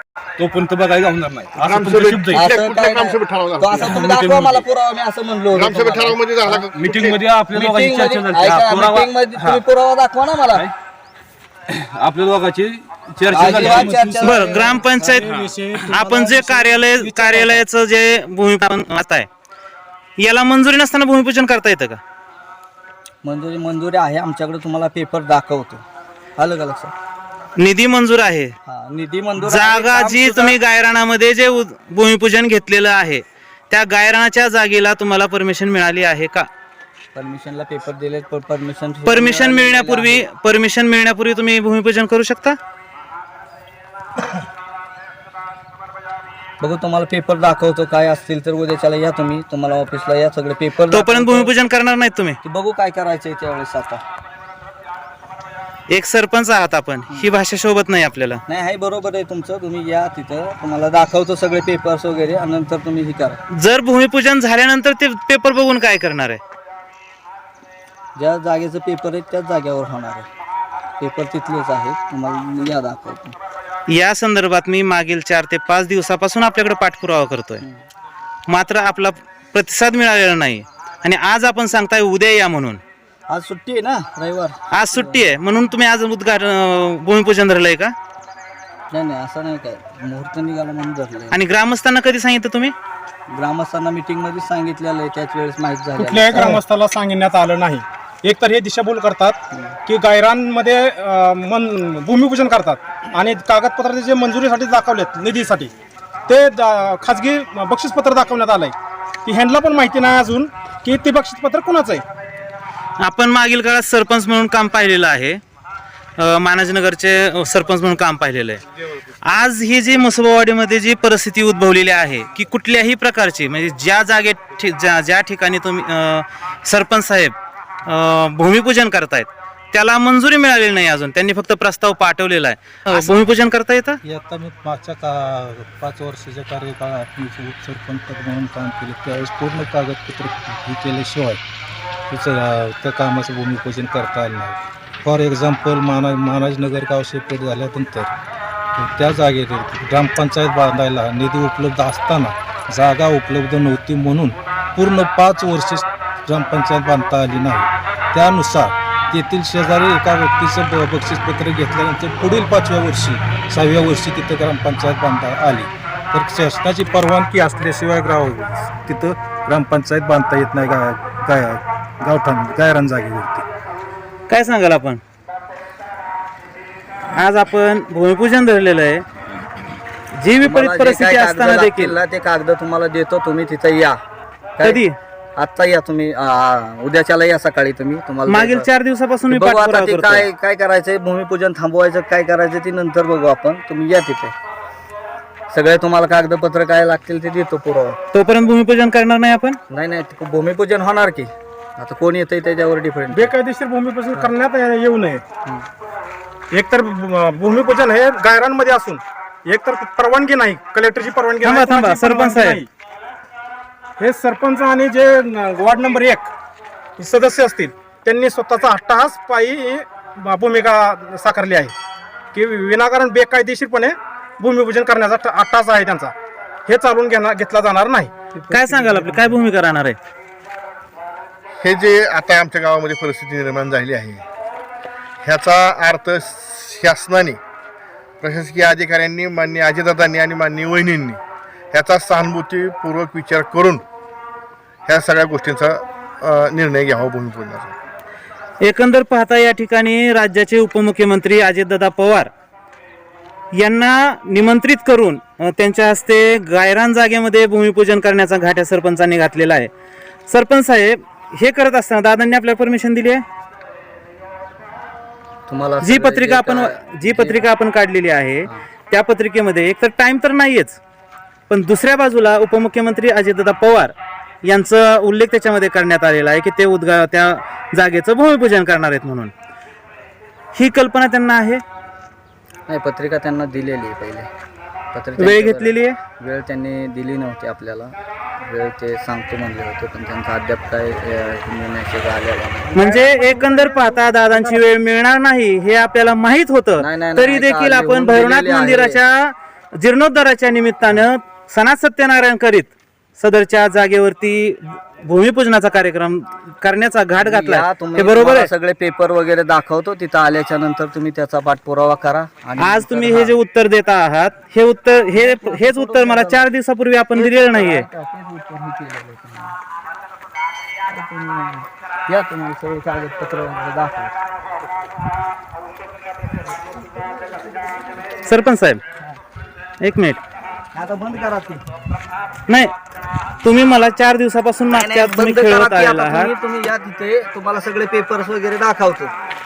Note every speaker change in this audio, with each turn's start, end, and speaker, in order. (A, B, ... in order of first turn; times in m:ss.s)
0:00.4-0:02.4 A
0:01.6-0:03.8 B
0:02.3-0:06.2 C
0:03.7-0:04.7 A
0:05.5-0:07.2 B
0:06.4-0:09.6 A
0:07.5-0:10.7 C
0:10.5-0:10.7 A
0:11.7-0:14.4 A
0:13.3-0:15.2 C
0:13.4-0:13.9 D
0:14.2-0:15.3 E
0:14.9-0:17.6 F
0:15.2-0:16.0 A
0:15.9-0:19.3 E
0:20.2-0:22.0 E
0:23.2-0:25.8 C
0:26.4-0:26.9 C
0:27.6-0:28.6 E
0:28.7-0:30.6 C
0:29.4-0:36.5 E
0:37.2-0:40.2 C
0:39.1-0:42.6 E
0:46.6-0:51.5 C
0:50.9-0:52.4 E
0:52.4-0:54.0 C
0:55.9-0:58.4 E
0:58.5-1:03.4 C
1:03.5-1:06.4 E
1:08.2-1:10.3 C
1:11.0-1:13.4 C
1:13.9-1:17.6 E
1:18.5-1:22.8 E
1:23.3-1:25.3 C
1:24.7-1:27.9 E
1:28.9-1:31.4 C
1:31.3-1:32.7 E
1:33.3-1:36.6 C
1:36.0-1:45.7 F
1:46.3-1:52.0 F
1:53.0-1:55.4 E
1:56.2-1:58.6 E
1:59.2-2:07.4 E
2:07.9-2:14.0 E
2:14.0-2:21.4 D
2:22.1-2:28.1 D
2:28.8-2:53.5 D
2:54.3-2:55.0 E
2:57.1-2:59.0 E
3:00.2-3:02.0 E
3:00.4-3:04.0 C
3:04.6-3:05.0 E
3:05.4-3:08.7 C
3:08.3-3:10.3 E
3:09.3-3:14.4 C
3:15.5-3:18.0 C
3:18.1-3:19.6 E
3:19.7-3:23.3 C
3:23.1-3:25.2 F
3:26.5-3:32.7 F
3:31.4-3:32.6 E
3:34.0-3:36.3 F
3:37.0-3:41.7 F
3:42.3-3:46.1 F
3:46.7-3:48.1 F
3:48.4-3:49.4 C
3:48.5-3:50.0 E
3:51.6-3:54.2 B
3:55.2-3:57.4 B
3:58.2-4:01.2 B
4:01.7-4:03.8 B
4:04.9-4:07.8 B
4:08.6-4:12.3 E
4:13.5-4:19.7 E
4:20.3-4:23.2 E
4:25.5-4:27.5 C
4:25.8-4:30.8 E
4:31.5-4:33.9 E
4:34.4-4:39.3 E
4:40.6-4:41.6 E
4:42.7-4:44.3 C
4:44.9-4:52.9 C
4:45.2-4:46.0 E
4:52.8-4:54.6 F
4:52.8-5:08.5 E
4:56.8-4:59.0 C
5:07.2-5:13.4 C
5:12.6-5:17.9 E
5:15.1-5:16.4 C
5:17.2-5:19.6 C
5:20.9-5:24.1 C
5:28.2-5:28.8 E
5:29.8-5:30.2 E
5:30.7-5:31.6 C
5:32.5-5:32.7 E
5:33.4-5:36.3 E
5:34.7-5:39.1 C